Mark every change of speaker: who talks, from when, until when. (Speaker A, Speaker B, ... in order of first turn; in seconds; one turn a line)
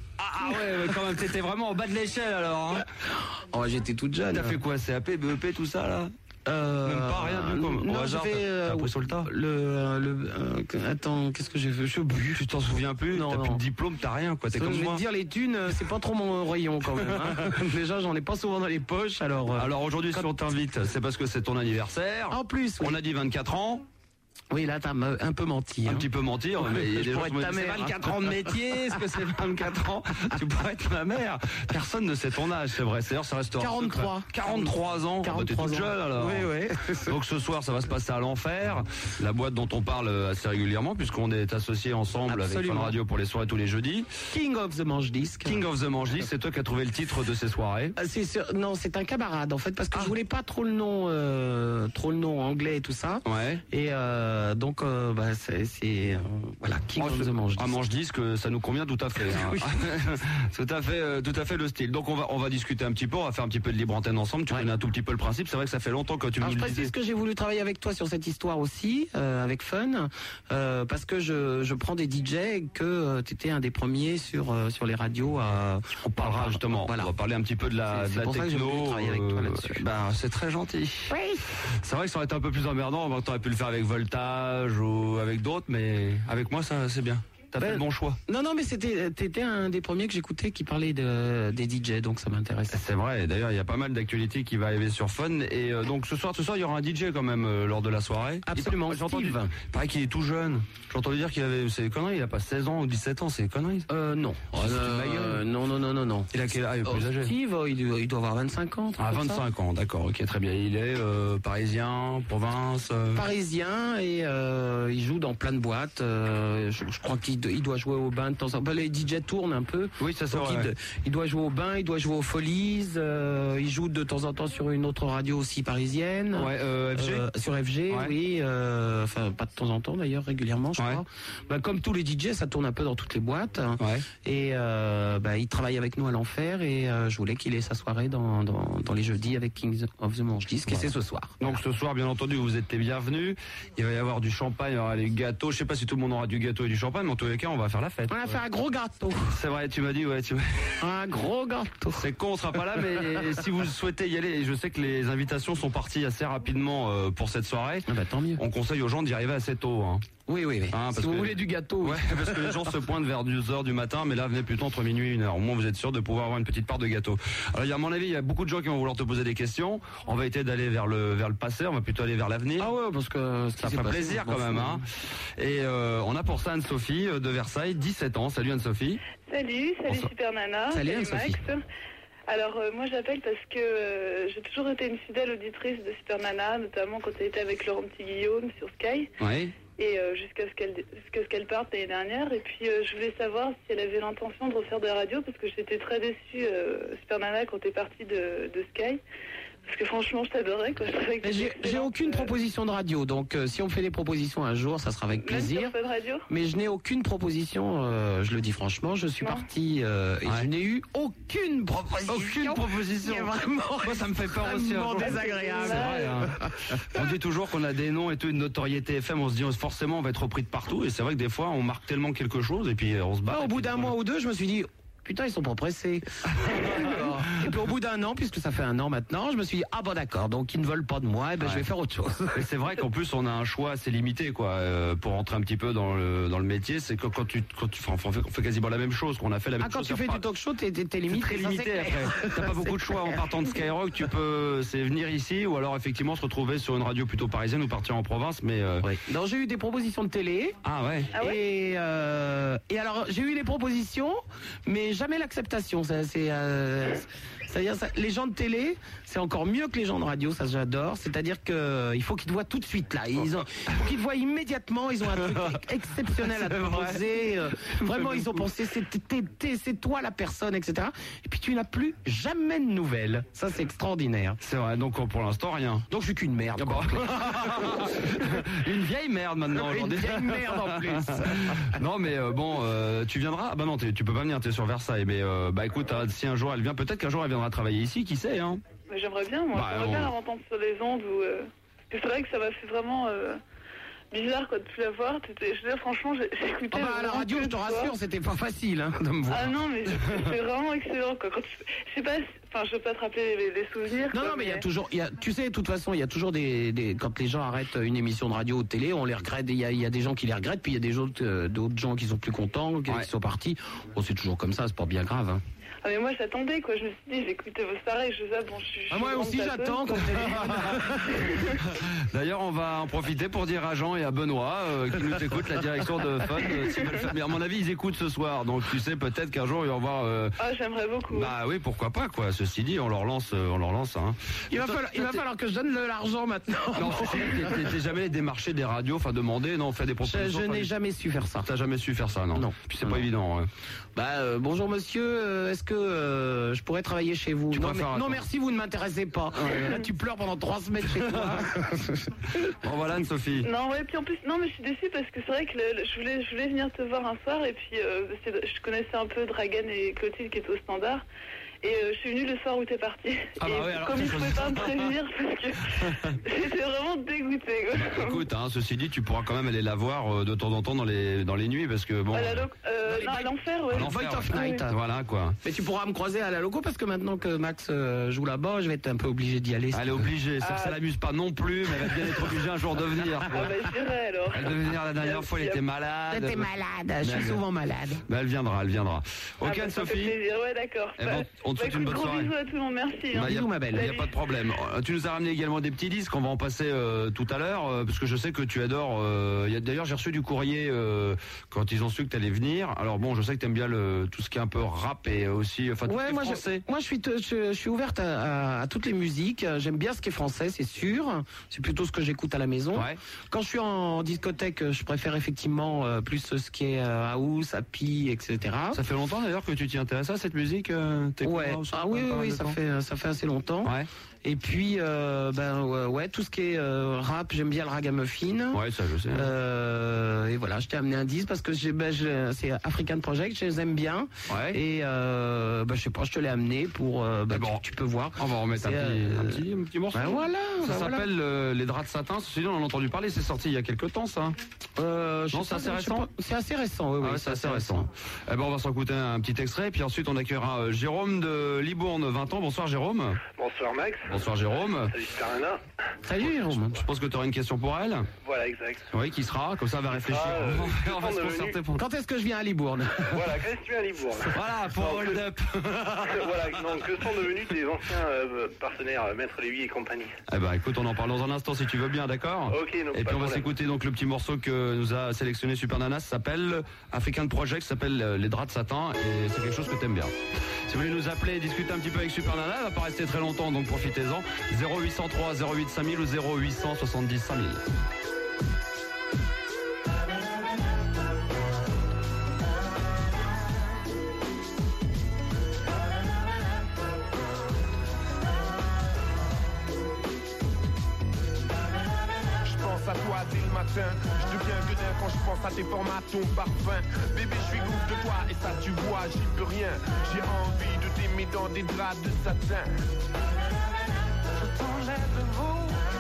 Speaker A: 0.2-2.8
Speaker B: 3.5-4.6
Speaker A: 4.3-6.1
Speaker B: 6.5-12.4
Speaker A: 6.8-9.3
Speaker A: 12.3-15.0
Speaker B: 13.1-13.6
Speaker B: 14.5-20.3
Speaker A: 16.9-17.6
Speaker A: 19.6-23.8
Speaker B: 22.3-22.9
Speaker B: 24.5-26.1
Speaker A: 25.8-36.5
Speaker B: 26.6-28.9
Speaker B: 33.6-37.1
Speaker A: 37.1-44.1
Speaker B: 42.3-43.0
Speaker B: 44.3-45.6
Speaker A: 45.5-48.0
Speaker B: 48.0-57.8
Speaker A: 53.2-53.6
Speaker A: 57.0-66.9
Speaker B: 59.2-59.7
Speaker B: 66.4-77.1
Speaker A: 76.0-81.1
Speaker B: 77.9-79.8
Speaker B: 81.1-81.5
Speaker A: 81.7-88.2
Speaker B: 87.6-92.8
Speaker A: 92.7-103.9
Speaker B: 98.5-99.5
Speaker B: 103.9-106.3
Speaker A: 104.5-105.4
Speaker A: 106.3-107.3
Speaker B: 106.8-109.4
Speaker A: 109.0-113.2
Speaker B: 113.1-141.6
Speaker A: 120.0-120.7
Speaker A: 126.3-127.3
Speaker A: 130.8-131.0
Speaker A: 133.8-134.0
Speaker A: 141.4-148.4
Speaker B: 148.1-149.3
Speaker A: 149.3-150.8
Speaker B: 150.8-152.0
Speaker A: 152.0-157.8
Speaker B: 157.9-158.4
Speaker A: 158.4-160.1
Speaker B: 160.3-162.7
Speaker A: 160.7-172.7
Speaker B: 172.6-174.8
Speaker A: 173.6-174.8
Speaker A: 175.4-179.0
Speaker C: 179.3-181.6
Speaker B: 180.7-181.4
Speaker C: 182.3-189.1
Speaker A: 189.2-189.5
Speaker C: 189.8-199.0
Speaker C: 199.7-202.3
Speaker B: 201.2-205.7
Speaker C: 205.2-206.2
Speaker B: 206.3-216.8
Speaker A: 212.0-216.3
Speaker C: 215.0-216.2
Speaker A: 216.9-223.9
Speaker B: 223.3-232.4
Speaker A: 226.4-227.1
Speaker A: 232.3-240.2
Speaker B: 239.6-243.2
Speaker A: 241.1-248.9
Speaker B: 248.8-250.6
Speaker A: 250.6-251.1
Speaker B: 251.2-274.4
Speaker A: 265.1-265.6
Speaker A: 266.1-268.5
Speaker A: 274.4-275.9
Speaker B: 275.9-278.4
Speaker A: 276.6-288.6
Speaker B: 279.5-281.7
Speaker C: 288.9-293.4
Speaker A: 289.5-290.1
Speaker C: 294.1-297.9
Speaker B: 296.7-299.5
Speaker C: 299.3-304.6
Speaker B: 304.1-315.4
Speaker C: 315.8-321.5
Speaker B: 318.9-321.4
Speaker A: 320.2-320.8
Speaker A: 321.8-330.4
Speaker C: 330.4-331.3
Speaker A: 331.1-335.2
Speaker B: 334.5-337.7
Speaker A: 336.7-340.7
Speaker B: 340.0-341.5
Speaker A: 341.4-343.5
Speaker B: 342.4-343.1
Speaker B: 344.0-352.1
Speaker A: 347.5-348.2
Speaker A: 350.9-351.5
Speaker A: 352.6-353.5
Speaker C: 353.4-361.0
Speaker C: 361.6-368.2
Speaker A: 363.4-364.9
Speaker A: 365.8-366.2
Speaker A: 367.7-372.5
Speaker C: 372.1-374.6
Speaker B: 372.9-374.8
Speaker A: 373.7-375.4
Speaker B: 375.4-379.9
Speaker A: 379.7-383.5
Speaker C: 380.5-380.8
Speaker C: 383.3-385.6
Speaker A: 384.3-386.5
Speaker B: 386.1-388.0
Speaker A: 387.0-387.4
Speaker A: 388.1-390.1
Speaker C: 389.4-394.1
Speaker A: 391.0-392.3
Speaker A: 393.1-406.6
Speaker B: 393.1-393.9
Speaker B: 405.9-418.8
Speaker A: 412.7-413.0
Speaker A: 418.7-422.6
Speaker B: 421.2-423.7
Speaker B: 424.2-428.6
Speaker A: 428.5-429.3
Speaker B: 429.1-439.4
Speaker A: 434.3-434.6
Speaker A: 437.3-437.6
Speaker A: 438.2-444.4
Speaker B: 439.9-441.1
Speaker B: 444.8-447.9
Speaker A: 445.3-446.1
Speaker A: 447.0-453.2
Speaker D: 453.4-455.6
Speaker A: 454.1-455.0
Speaker B: 456.0-456.8
Speaker A: 456.2-458.1
Speaker D: 458.2-458.8
Speaker A: 458.9-461.8
Speaker D: 460.1-461.6
Speaker B: 461.8-463.2
Speaker D: 463.1-465.2
Speaker A: 464.3-466.7
Speaker D: 466.1-470.1
Speaker A: 470.3-480.1
Speaker D: 472.5-473.4
Speaker A: 480.7-487.6
Speaker E: 502.4-512.8